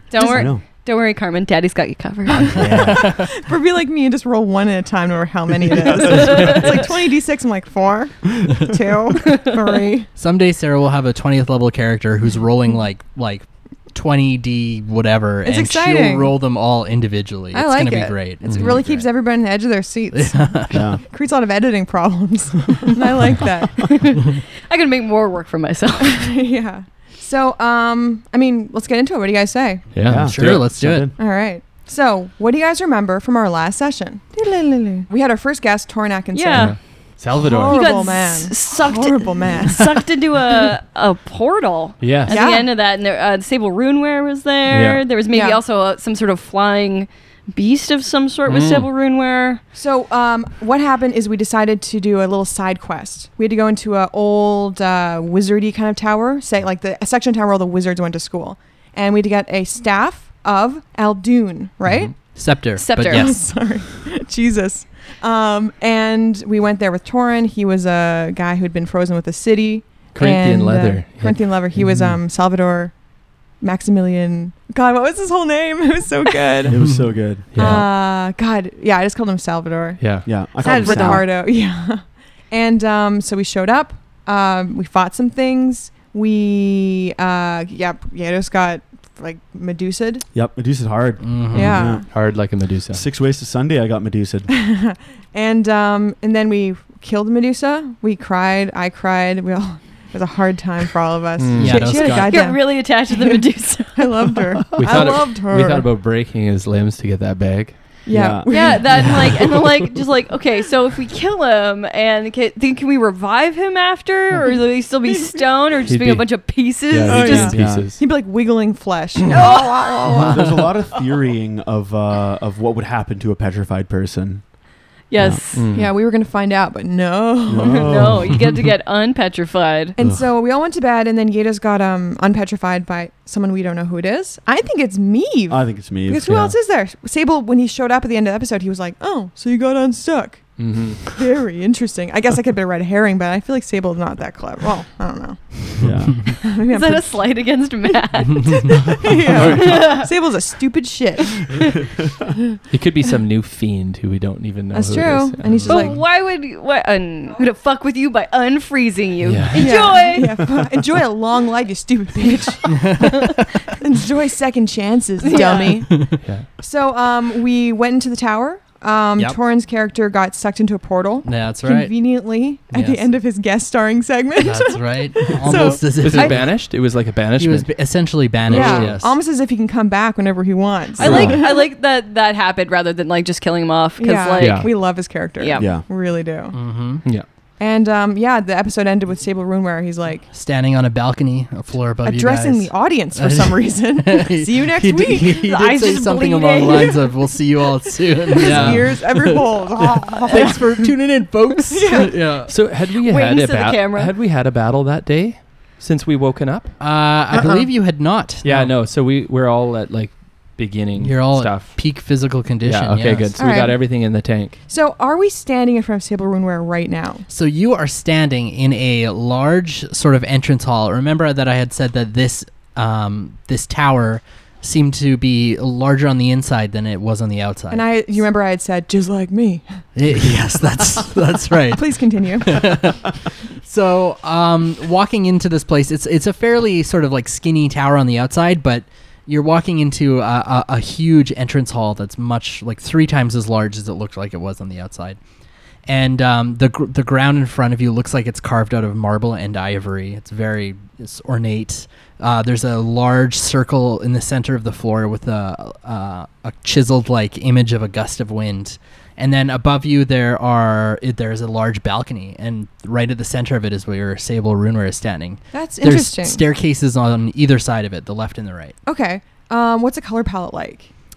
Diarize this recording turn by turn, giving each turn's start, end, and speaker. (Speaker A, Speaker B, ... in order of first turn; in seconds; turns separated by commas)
Speaker A: 0.1-2.8, Speaker B: 0.2-0.5, Speaker C: 0.3-0.6, Speaker C: 2.4-3.1, Speaker D: 2.6-2.9, Speaker B: 2.7-10.1, Speaker E: 2.9-3.2, Speaker A: 6.0-6.8, Speaker D: 6.3-6.7, Speaker E: 10.2-19.1, Speaker B: 15.4-16.3, Speaker B: 17.5-24.0, Speaker D: 18.5-18.8, Speaker E: 20.1-20.9, Speaker C: 20.7-21.0, Speaker E: 22.6-22.9, Speaker A: 23.9-26.3, Speaker B: 26.0-29.9, Speaker D: 29.9-30.8, Speaker C: 30.1-31.1, Speaker E: 30.1-31.2, Speaker B: 31.2-36.8, Speaker A: 36.3-36.8, Speaker D: 36.5-37.9, Speaker B: 37.3-40.0, Speaker A: 37.7-49.6, Speaker D: 42.0-42.4, Speaker B: 42.3-42.7, Speaker D: 44.7-45.1, Speaker B: 45.3-45.6, Speaker D: 48.5-48.9, Speaker B: 49.8-62.2, Speaker D: 61.9-62.2, Speaker E: 62.2-63.4, Speaker A: 62.8-63.3, Speaker B: 63.0-73.0, Speaker D: 70.1-71.6, Speaker C: 71.8-72.2, Speaker B: 73.6-76.8, Speaker C: 76.7-77.8, Speaker E: 76.7-77.0, Speaker D: 77.5-77.9, Speaker B: 77.6-90.2, Speaker D: 80.0-80.4, Speaker C: 80.2-81.2, Speaker A: 80.6-81.2, Speaker C: 90.3-92.3, Speaker E: 91.2-92.0, Speaker B: 91.5-92.1, Speaker D: 92.1-93.0, Speaker C: 92.9-94.5, Speaker B: 94.5-103.4, Speaker D: 101.4-102.0, Speaker E: 101.5-102.5, Speaker A: 102.0-104.2, Speaker B: 104.0-105.9, Speaker D: 104.8-107.8, Speaker C: 104.8-105.0, Speaker B: 108.1-109.5, Speaker C: 108.1-108.8, Speaker A: 108.5-117.5, Speaker D: 115.9-118.0, Speaker B: 117.1-120.5, Speaker C: 117.3-117.9, Speaker A: 119.3-119.8, Speaker C: 120.1-124.5, Speaker E: 120.2-120.6, Speaker A: 125.1-125.7, Speaker C: 125.2-125.4, Speaker D: 125.5-125.9, Speaker B: 125.7-128.0, Speaker C: 127.5-128.5, Speaker A: 127.5-130.0, Speaker D: 127.9-128.1, Speaker B: 130.0-145.7, Speaker C: 135.5-136.3, Speaker E: 136.2-136.6, Speaker D: 140.6-141.1, Speaker C: 145.8-146.3, Speaker B: 146.3-147.3, Speaker A: 146.7-150.1, Speaker B: 148.6-151.8, Speaker D: 149.0-150.1, Speaker D: 152.7-155.9, Speaker B: 154.7-156.0, Speaker A: 155.7-160.5, Speaker D: 159.2-160.1, Speaker B: 159.5-176.4, Speaker E: 162.7-163.5, Speaker A: 165.2-165.8, Speaker E: 165.5-166.2, Speaker D: 166.2-166.5, Speaker E: 171.2-172.0, Speaker E: 172.7-173.1, Speaker E: 174.4-176.8, Speaker D: 175.5-179.0, Speaker E: 177.4-179.2, Speaker B: 178.5-181.6, Speaker A: 181.0-185.7, Speaker C: 181.0-181.3, Speaker D: 181.1-181.3, Speaker B: 184.0-186.6, Speaker D: 184.4-184.7, Speaker C: 185.6-185.8, Speaker E: 186.5-187.2, Speaker D: 187.0-187.3, Speaker B: 187.6-190.3, Speaker E: 190.3-202.5, Speaker B: 192.1-195.4, Speaker A: 195.3-197.0, Speaker B: 198.3-200.9, Speaker A: 198.4-198.7, Speaker B: 201.7-202.3, Speaker D: 202.4-206.8, Speaker A: 203.0-204.1, Speaker E: 206.8-208.8, Speaker B: 207.3-207.7, Speaker D: 208.4-214.6, Speaker E: 211.0-213.4, Speaker B: 213.4-217.3, Speaker E: 217.3-227.9, Speaker B: 227.7-229.7, Speaker E: 229.9-245.2, Speaker B: 231.7-232.6, Speaker E: 245.9-268.8, Speaker B: 265.5-266.4, Speaker B: 268.9-270.9